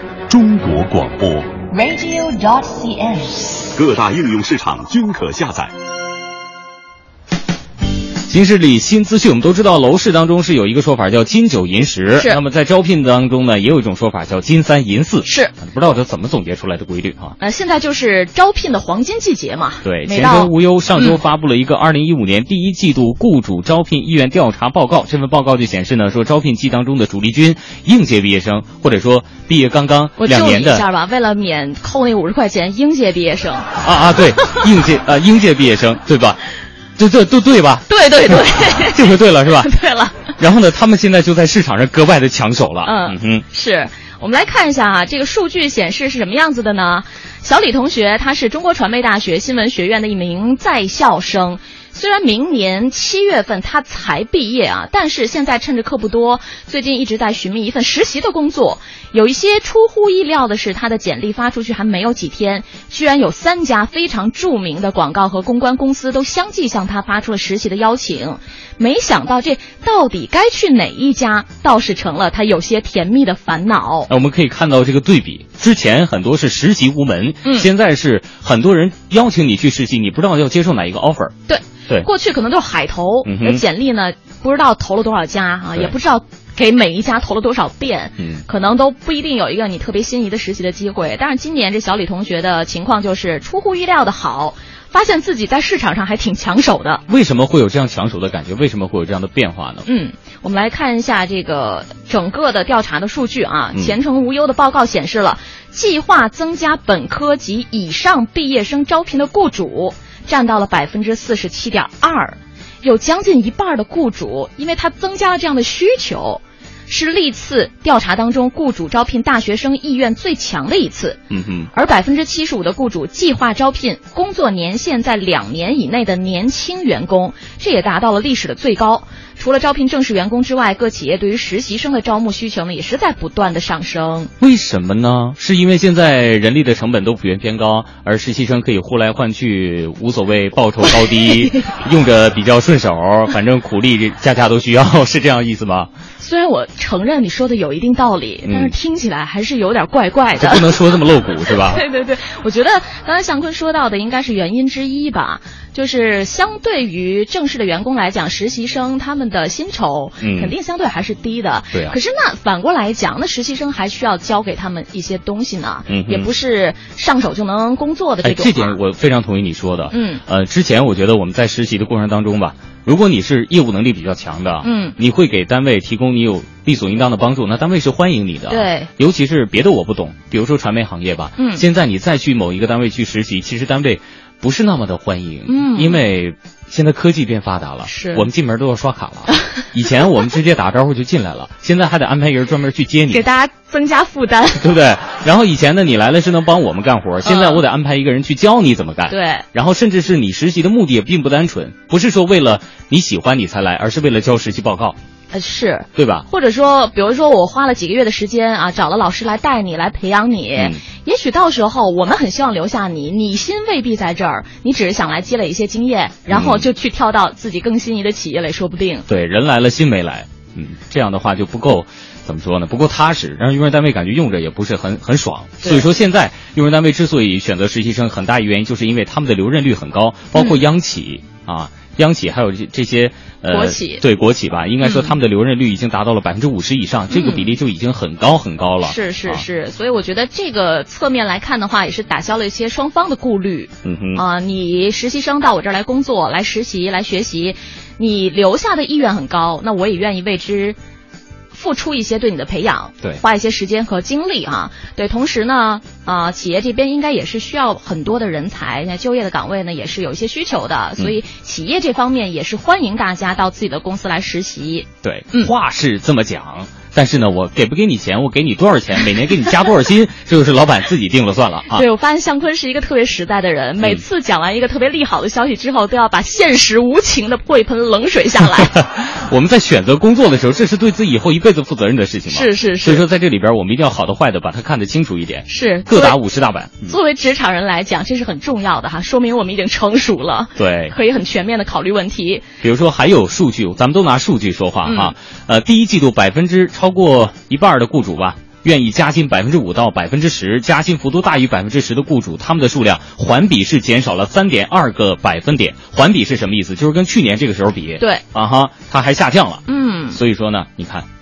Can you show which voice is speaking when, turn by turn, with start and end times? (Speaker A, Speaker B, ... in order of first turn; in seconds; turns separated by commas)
Speaker A: 0.3-5.7, Speaker B: 8.3-17.4, Speaker C: 12.2-12.4, Speaker C: 15.2-15.6, Speaker C: 17.4-21.2, Speaker B: 19.8-30.9, Speaker C: 30.2-33.8, Speaker B: 33.8-36.4, Speaker B: 37.0-39.7, Speaker C: 37.9-40.3, Speaker B: 40.4-43.5, Speaker C: 42.8-74.1, Speaker B: 74.1-81.3, Speaker C: 77.4-77.7, Speaker C: 81.5-97.0, Speaker B: 83.2-83.6, Speaker B: 88.2-88.4, Speaker B: 97.1-99.9, Speaker C: 99.8-121.2, Speaker B: 121.3-121.7, Speaker C: 121.7-134.3, Speaker B: 134.4-145.9, Speaker C: 140.9-141.7, Speaker C: 146.2-150.9, Speaker B: 148.4-148.8, Speaker B: 150.4-151.8, Speaker C: 151.4-168.8, Speaker B: 160.2-160.5, Speaker B: 161.7-162.0, Speaker B: 165.9-166.3, Speaker B: 168.2-193.3, Speaker C: 169.9-170.2, Speaker C: 174.6-175.0, Speaker C: 178.5-178.9, Speaker C: 181.4-181.7, Speaker C: 185.5-186.1, Speaker C: 187.9-188.3, Speaker C: 189.4-189.7, Speaker C: 193.1-194.8, Speaker B: 194.6-205.0, Speaker C: 197.2-197.6, Speaker C: 199.1-199.4, Speaker C: 205.3-219.1, Speaker B: 206.0-206.3, Speaker B: 210.6-210.8, Speaker B: 216.3-216.7, Speaker B: 219.1-239.4, Speaker C: 230.3-230.6, Speaker C: 233.5-234.0, Speaker C: 234.8-235.1, Speaker C: 237.1-237.5, Speaker C: 238.8-250.8, Speaker B: 243.8-244.2, Speaker C: 251.5-265.5, Speaker B: 265.0-271.9, Speaker C: 271.7-278.8, Speaker B: 278.4-287.0, Speaker C: 282.3-283.1, Speaker C: 285.5-286.2, Speaker C: 286.8-292.5, Speaker B: 290.6-291.0, Speaker B: 292.6-311.1, Speaker C: 294.9-295.1, Speaker C: 308.0-308.2, Speaker C: 309.7-310.2